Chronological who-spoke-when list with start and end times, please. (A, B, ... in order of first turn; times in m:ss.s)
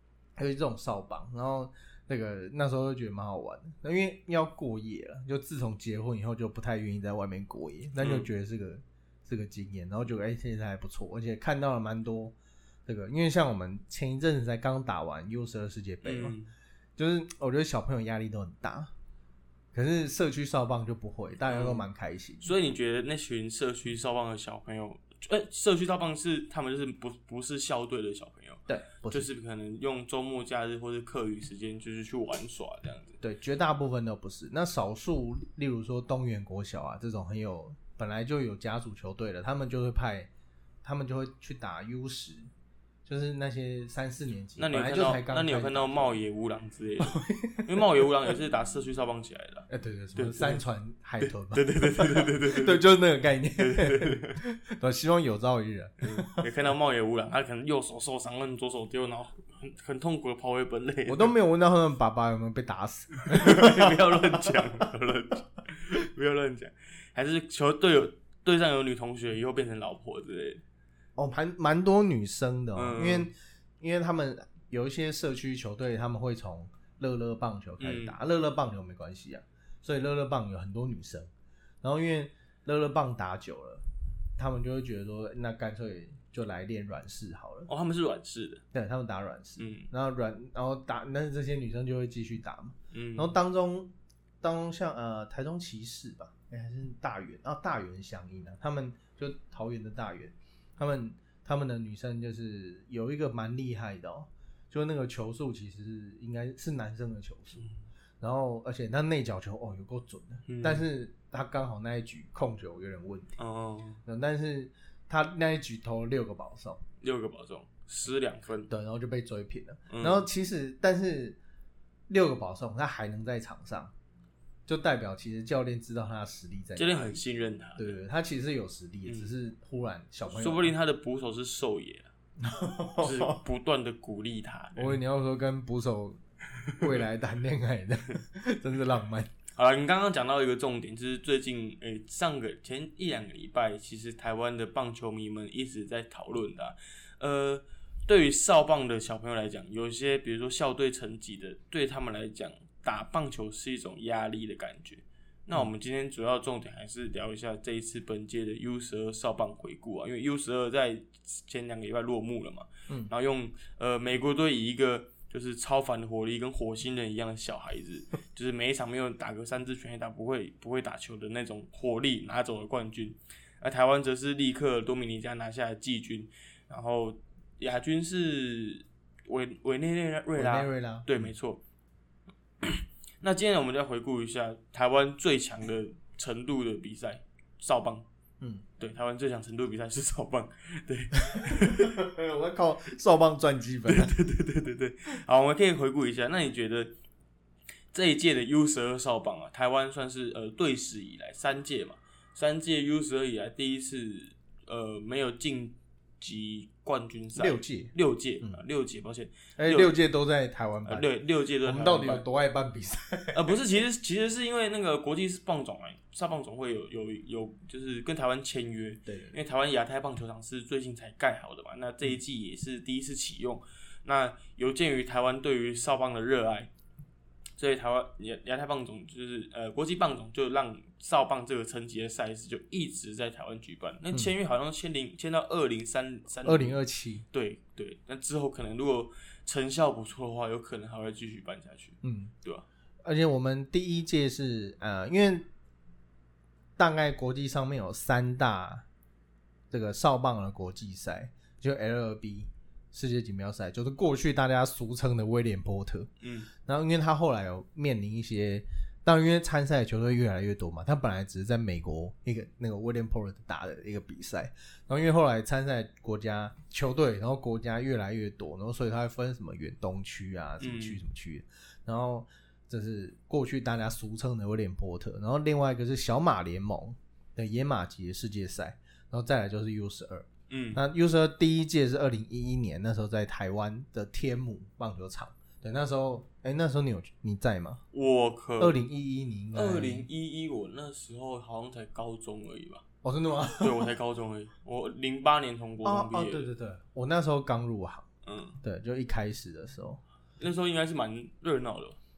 0:00.4-0:12.3 A
0:08.0-0:08.3 B
0:12.9-0:16.4 A
0:16.0-0:16.5 B
0:17.0-0:18.9 A
0:19.7-0:22.5 A
0:21.5-0:21.8 B
0:22.4-0:33.2 B
0:28.7-0:29.3 A
0:33.2-0:40.3 A
0:40.8-0:42.5 A
0:43.1-0:46.2 A
0:44.6-0:50.6 B
0:47.1-0:47.8 A
0:49.7-0:56.5 A
0:51.2-0:52.8 B
0:53.6-0:54.4 B
0:56.0-1:01.3 B
1:01.1-1:04.6 A
1:03.3-1:10.6 B
1:11.2-1:21.3 A
1:12.8-1:13.3 B
1:17.8-1:18.2 B
1:21.8-1:23.9 A
1:24.4-1:27.7 A
1:27.7-1:28.6 B
1:28.7-1:47.6 A
1:29.6-1:29.9 B
1:32.9-1:33.4 B
1:48.2-1:53.4 A
1:50.5-1:50.8 B
1:53.4-1:54.0 B
1:54.1-1:56.8 A
1:57.0-1:58.7 B
1:58.7-2:01.4 A
1:59.9-2:00.3 B
2:02.1-2:03.9 A
2:04.7-2:07.2 A
2:06.8-2:08.0 B
2:07.8-2:10.7 A
2:10.3-2:12.1 B
2:12.4-2:13.4 A
2:13.0-2:15.0 B
2:14.8-2:16.2 A
2:16.8-2:19.3 A
2:19.6-3:01.6 B
3:00.4-3:01.3 A
3:02.6-3:08.0 B
3:08.8-3:12.0 B
3:11.3-3:14.2 A
3:13.9-3:16.9 B
3:17.9-3:29.9 B
3:27.4-3:28.6 A
3:29.6-3:31.1 A
3:30.9-3:32.3 B
3:31.6-3:33.6 A
3:33.3-3:46.7 B
3:39.1-3:39.3 A
3:47.6-3:56.8 B
3:56.4-3:57.2 A
3:57.3-4:02.7 B
4:02.0-4:02.3 A
4:03.0-4:05.5 A
4:06.8-4:08.9 A
4:09.7-4:16.1 A
4:16.2-4:16.5 B
4:16.6-4:47.8 A
4:30.6-4:31.0 B
4:40.5-4:40.8 B
4:47.9-4:48.8 B
4:48.6-4:50.1 A
4:49.5-4:52.8 B
4:53.0-4:53.9 A
4:53.6-4:56.5 B
4:55.8-4:58.1 A
4:58.2-4:58.6 B
4:58.6-5:00.0 A
5:00.4-5:02.0 B